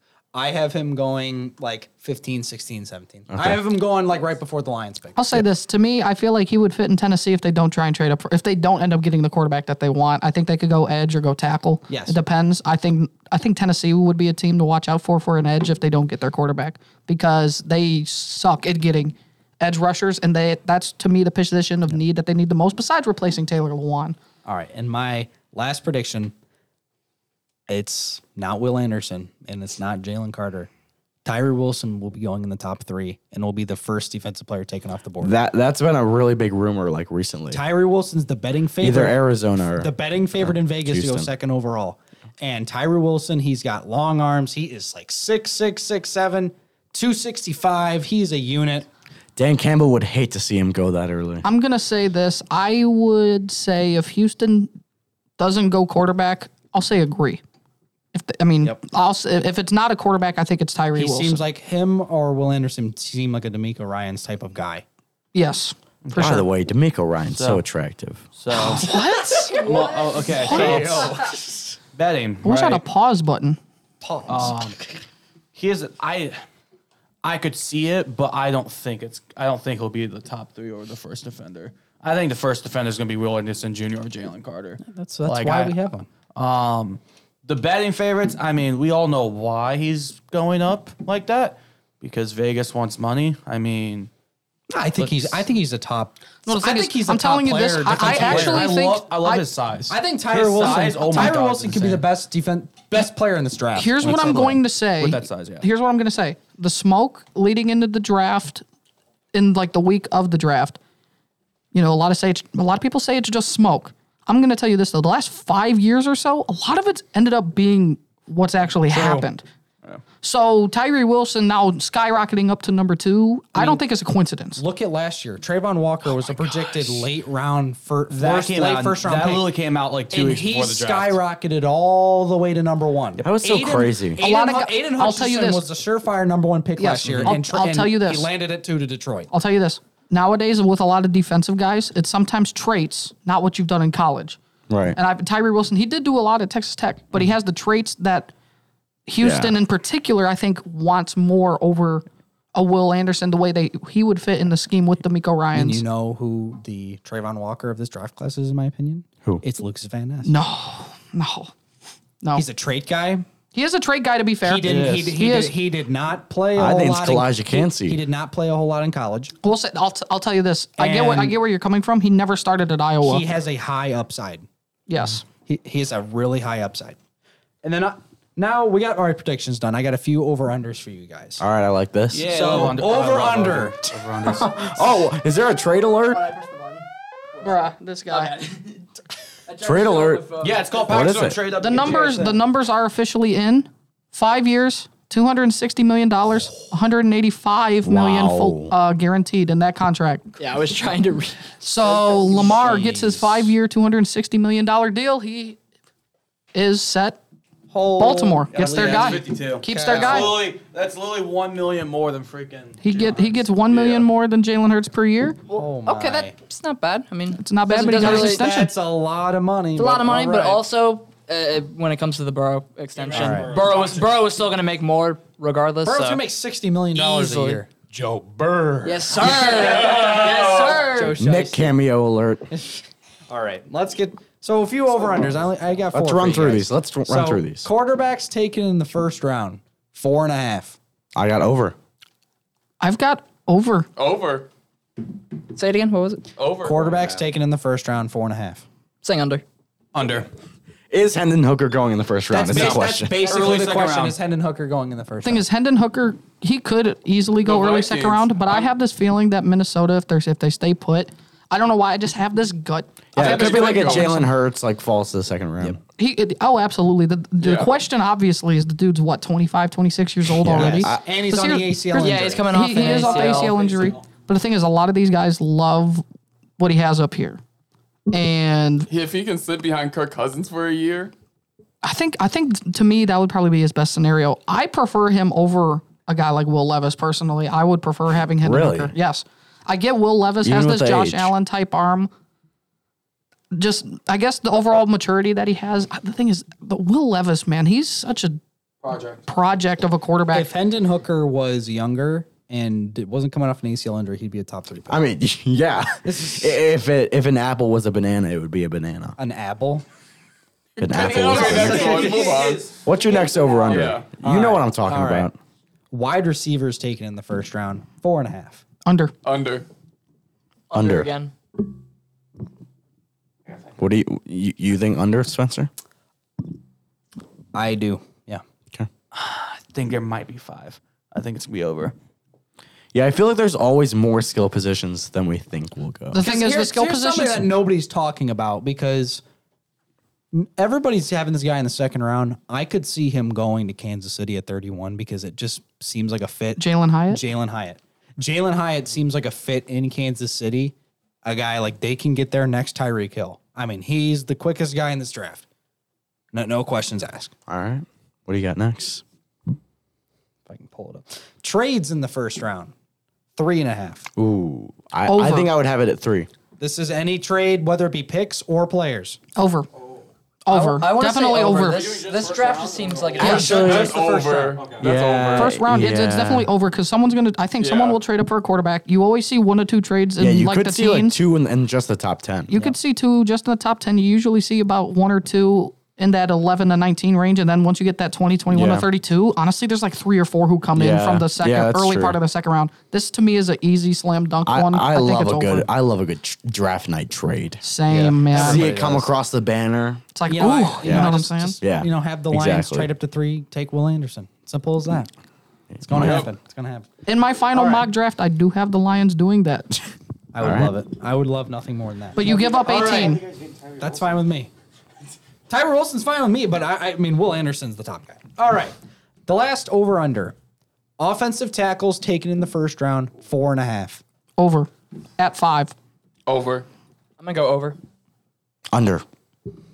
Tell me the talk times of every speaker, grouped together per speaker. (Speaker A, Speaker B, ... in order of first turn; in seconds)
Speaker A: 0.3-5.4, 11.9-12.2, 24.4-26.3, 27.7-30.7, 31.2-35.4, 37.5-39.2, 39.8-48.9, 61.0-64.8, 70.5-71.1, 74.0-74.5, 84.8-86.1, 94.7-98.8, 99.9-104.6, 118.9-119.2, 124.6-129.5, 130.1-139.3, 155.5-160.3, 162.3-163.3, 164.4-169.3, 170.8-171.4, 173.0-174.5, 175.5-177.0, 177.6-181.4, 182.2-183.8, 201.9-203.5, 207.7-210.3, 215.5-216.3, 218.0-220.6, 223.1-223.7, 225.8-231.7, 233.3-240.8, 246.6-248.6, 252.3-255.4, 270.5-273.3, 300.3-305.1, 306.0-306.6, 309.2-309.8, 314.2-315.3, 315.9-318.6, 327.5-328.4, 336.2-339.2, 340.3-355.4, 356.3-357.3, 360.5-362.7, 363.4-364.1, 366.6-369.2, 373.2-374.6, 397.9-399.1, 400.3-405.1, 405.9-406.9, 407.5-407.9, 410.3-413.1, 413.8-414.5, 415.5-418.8, 419.3-420.4, 421.0-424.0
Speaker B: 3.3-3.6, 35.2-37.6, 38.8-41.3, 49.4-51.5, 66.1-68.3, 133.2-134.2, 137.1-137.3, 144.7-145.0, 149.2-149.6, 166.5-168.0, 181.4-182.5, 184.2-186.2, 189.6-190.3, 190.9-191.4, 197.8-198.7, 231.2-232.5, 235.9-237.7, 241.2-241.8, 250.9-253.2, 263.1-265.8, 270.3-271.1, 288.4-288.9, 290.4-291.3, 304.9-309.2, 310.8-312.2, 312.8-315.4, 320.7-321.1, 323.8-325.7, 332.9-336.2, 357.5-359.0, 364.2-366.3, 373.5-373.9, 374.8-376.5, 380.2-382.7, 388.5-388.9, 390.8-392.2, 394.5-397.6, 398.3-400.1, 400.8-402.9, 405.7-406.3, 410.4-410.8, 428.7-429.1
Speaker C: 5.2-24.2, 51.4-54.7, 55.4-57.4, 58.1-61.4, 65.3-66.5, 68.5-71.1, 72.4-73.6, 96.5-99.5, 100.6-101.4, 103.8-108.6, 109.3-110.8, 111.7-119.4, 120.2-124.6, 134.2-135.7, 136.8-138.3, 139.3-144.4, 144.9-148.3, 149.1-155.8, 160.2-161.5, 163.5-165.5, 169.4-173.2, 174.9-175.3, 187.4-188.4, 191.6-200.3, 201.6-205.6, 206.6-207.2, 208.0-210.5, 212.8-215.4, 217.3-218.7, 242.8-243.9, 255.2-264.3, 266.0-276.0, 276.6-277.4, 278.1-278.9, 281.8-292.1, 293.5-298.4, 299.3-300.5, 318.9-319.1, 336.1-337.5, 346.6-347.2, 365.1-365.6, 369.4-369.7, 370.5-371.8, 375.4-381.2, 382.5-395.7, 397.6-398.7, 400.1-401.6, 407.1-409.8, 412.2-413.2, 424.4-425.7
Speaker D: 66.0-66.4, 67.3-67.6, 68.3-68.9, 69.5-71.4, 71.9-72.8, 74.3-74.8, 75.5-76.4, 77.2-85.8, 86.3-94.1, 95.0-95.5, 97.9-102.1, 104.0-105.7, 128.1-131.2, 164.6-165.1, 182.1-184.8, 190.4-192.4, 208.5-213.5, 223.0-223.9, 249.9-250.3, 252.5-254.2, 273.1-274.0, 298.8-299.2, 311.0-314.1, 329.1-331.9, 371.6-373.9, 374.6-374.9, 412.2-414.2
Speaker E: 69.4-70.7, 186.1-186.8, 188.1-188.8, 189.5-190.9, 200.4-201.6, 215.6-218.5, 219.8-226.2, 226.9-227.7, 228.8-231.4, 245.5-246.3, 249.0-249.4, 271.9-273.7, 320.7-321.3, 370.5-373.7, 427.2-427.8
Speaker F: 213.7-214.1, 229.9-230.8, 244.0-244.5, 246.4-247.2, 257.4-258.7, 263.2-264.1, 267.4-267.7, 278.9-281.1, 310.8-312.7, 313.7-314.1, 319.2-319.7, 373.3-375.6, 377.6-378.0, 406.0-406.3, 426.3-426.7